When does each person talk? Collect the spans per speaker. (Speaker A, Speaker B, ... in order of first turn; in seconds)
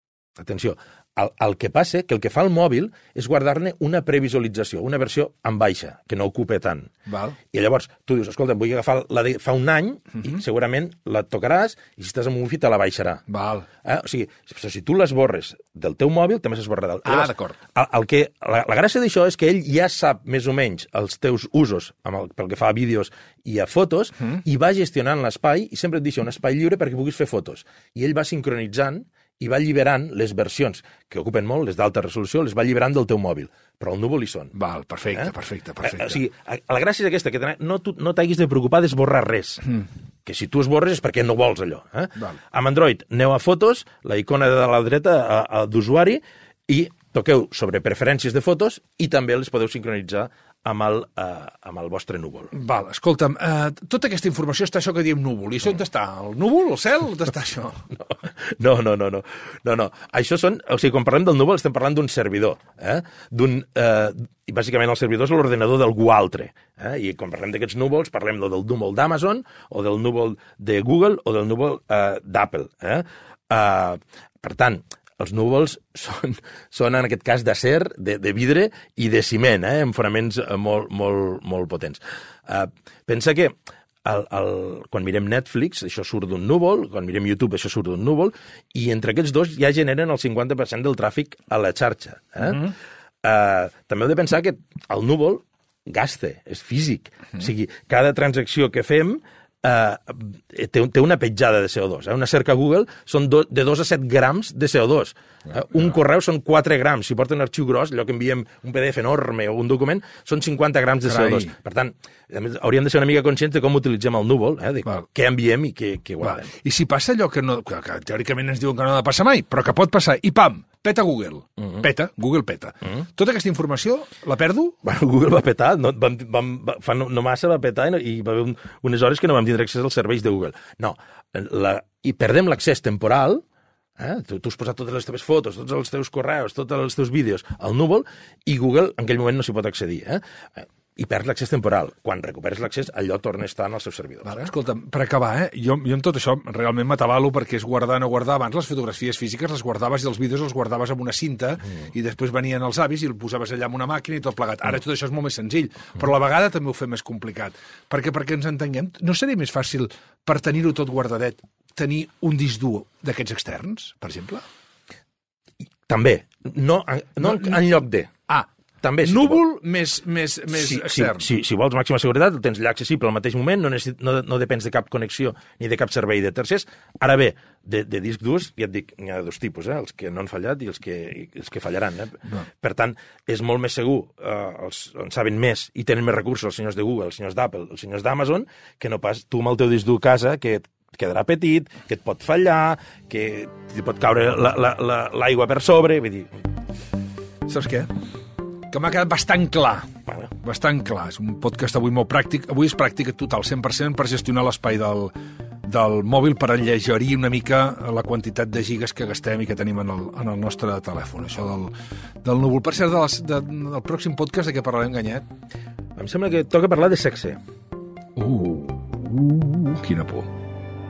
Speaker A: 0.4-6.9, 7.5-13.2, 13.8-34.5, 35.1-52.5, 58.0-116.5, 124.8-133.4, 134.0-144.5, 165.9-168.1, 168.8-169.4, 170.5-196.4, 215.9-217.4
Speaker B: 7.1-7.4, 13.3-13.7, 17.1-17.6, 34.5-36.2, 52.5-57.8, 111.0-111.5, 116.2-124.8, 144.2-164.4, 167.2-167.6, 169.0-171.2, 197.5-197.9, 198.7-205.1, 205.6-215.2, 218.2-220.3